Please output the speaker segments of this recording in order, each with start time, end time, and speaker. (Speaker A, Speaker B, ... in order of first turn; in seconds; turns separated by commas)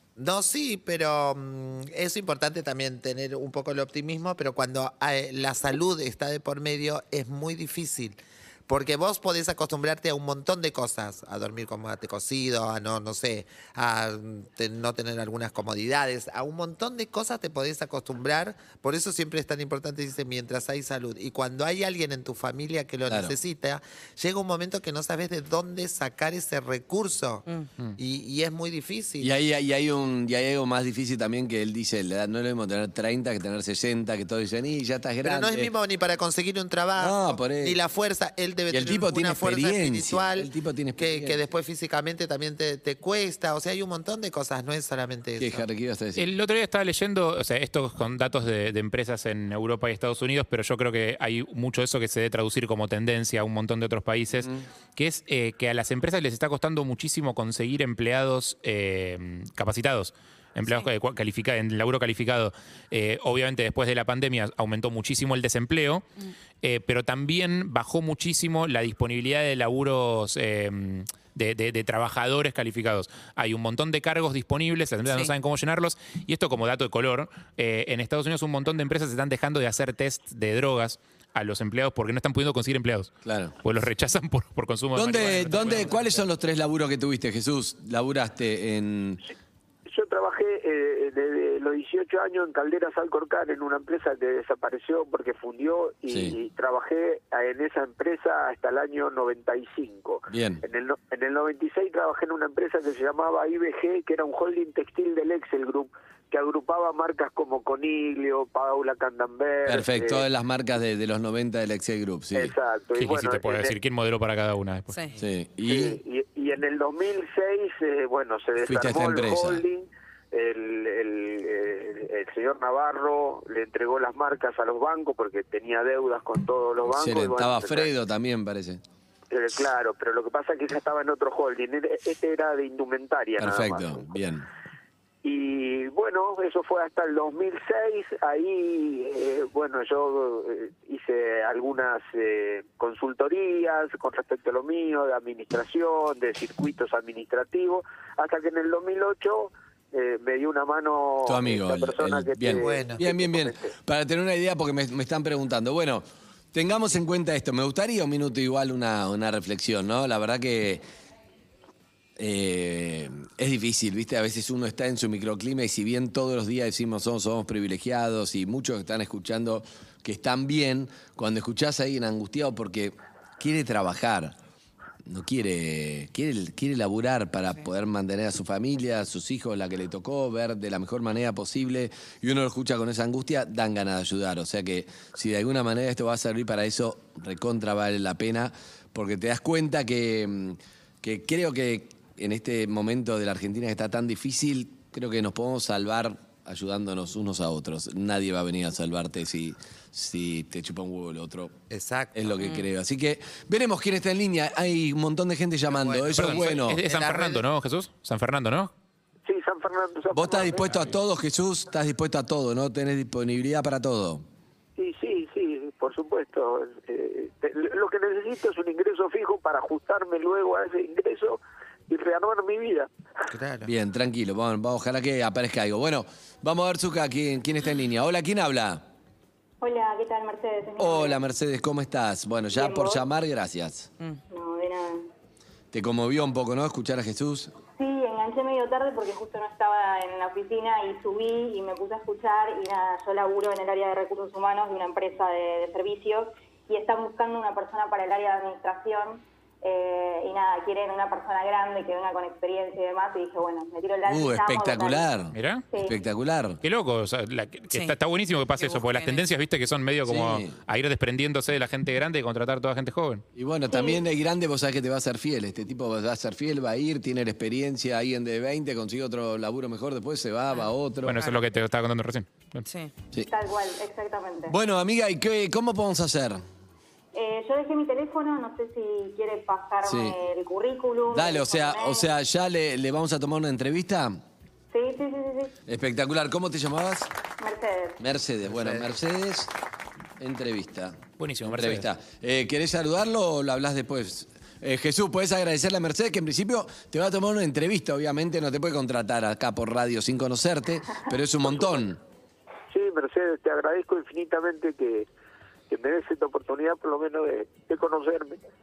Speaker A: 0.2-27.4, Speaker B: 23.1-23.4, Speaker A: 28.0-29.3, Speaker B: 29.2-35.7, Speaker A: 35.2-45.6, Speaker B: 37.0-37.8, Speaker B: 38.7-41.4, Speaker B: 45.4-46.2, Speaker C: 46.1-66.0, Speaker D: 60.6-60.9, Speaker C: 66.6-86.2, Speaker D: 75.0-75.3, Speaker B: 83.2-83.5, Speaker B: 84.9-89.2, Speaker E: 89.9-110.2, Speaker B: 96.1-96.3, Speaker B: 100.3-100.6, Speaker B: 109.7-112.5, Speaker E: 112.3-113.8, Speaker C: 113.0-114.9, Speaker D: 114.9-115.1, Speaker B: 115.2-116.0, Speaker E: 115.7-127.9, Speaker B: 118.6-119.6, Speaker B: 126.8-128.8, Speaker E: 129.3-134.1, Speaker B: 133.4-134.5, Speaker E: 135.2-153.7, Speaker B: 151.2-160.8, Speaker A: 152.5-153.0, Speaker B: 162.2-174.4, Speaker B: 175.1-201.5, Speaker A: 201.7-202.3, Speaker B: 202.1-206.8, Speaker A: 205.7-207.4, Speaker C: 206.2-208.7, Speaker E: 209.2-210.9, Speaker B: 210.1-214.2, Speaker E: 214.8-222.9, Speaker A: 223.3-223.7, Speaker B: 223.6-228.8, Speaker F: 229.6-231.2, Speaker B: 230.8-233.9, Speaker F: 232.5-233.0, Speaker F: 234.3-235.1, Speaker B: 235.7-237.5, Speaker F: 237.8-255.1, Speaker B: 254.1-256.6, Speaker C: 255.3-255.6, Speaker F: 255.7-256.0, Speaker C: 256.6-263.2, Speaker D: 257.7-258.0, Speaker D: 258.5-259.2, Speaker B: 260.1-260.5, Speaker B: 263.3-271.3, Speaker F: 263.7-264.0, Speaker C: 271.0-272.6, Speaker D: 272.6-272.9, Speaker F: 273.3-274.6, Speaker B: 274.5-276.4, Speaker F: 277.1-282.1, Speaker B: 279.8-280.2, Speaker B: 281.1-284.2, Speaker F: 284.7-285.5, Speaker B: 285.7-287.1, Speaker F: 287.4-288.0, Speaker B: 288.0-289.5, Speaker A: 288.5-288.8, Speaker B: 290.2-302.0, Speaker C: 291.2-291.9, Speaker E: 302.7-305.1, Speaker E: 305.7-308.4